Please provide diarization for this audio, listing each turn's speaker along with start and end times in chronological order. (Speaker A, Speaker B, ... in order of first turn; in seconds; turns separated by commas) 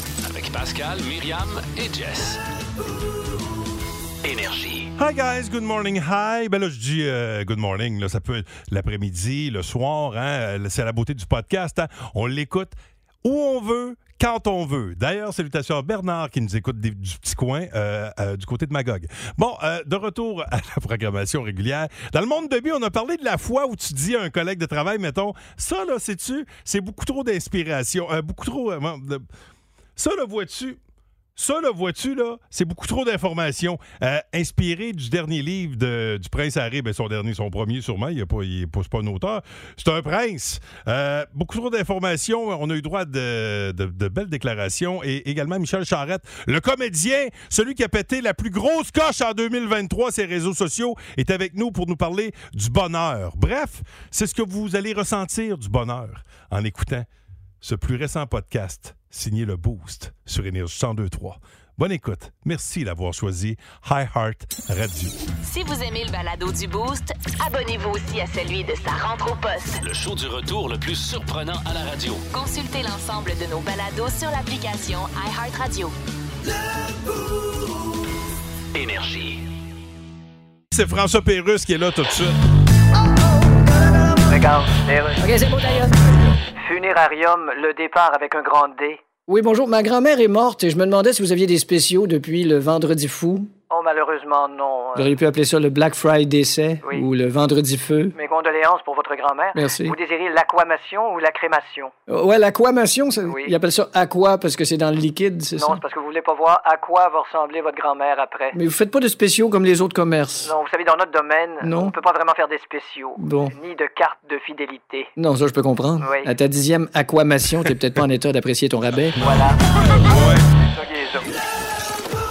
Speaker A: 0.2-2.4, Speaker A: 4.2-4.9, Speaker B: 5.0-29.2, Speaker B: 30.0-30.8, Speaker B: 31.4-57.1, Speaker B: 57.6-65.2, Speaker C: 65.4-69.8, Speaker A: 69.8-72.2, Speaker C: 72.3-75.9, Speaker A: 78.7-79.4, Speaker B: 80.7-82.4, Speaker D: 84.3-85.2, Speaker E: 85.2-85.9, Speaker D: 86.6-89.0, Speaker E: 89.3-93.5, Speaker D: 93.7-95.1, Speaker E: 95.0-98.1, Speaker D: 96.8-97.1, Speaker D: 98.1-101.9, Speaker E: 99.5-100.0, Speaker E: 102.1-105.8, Speaker D: 103.2-103.6, Speaker D: 105.5-108.6, Speaker E: 108.6-110.5, Speaker D: 110.4-115.1, Speaker E: 111.6-111.9, Speaker E: 113.2-113.5, Speaker E: 115.2-119.2, Speaker D: 116.0-116.3, Speaker D: 119.2-121.3, Speaker B: 120.0-120.5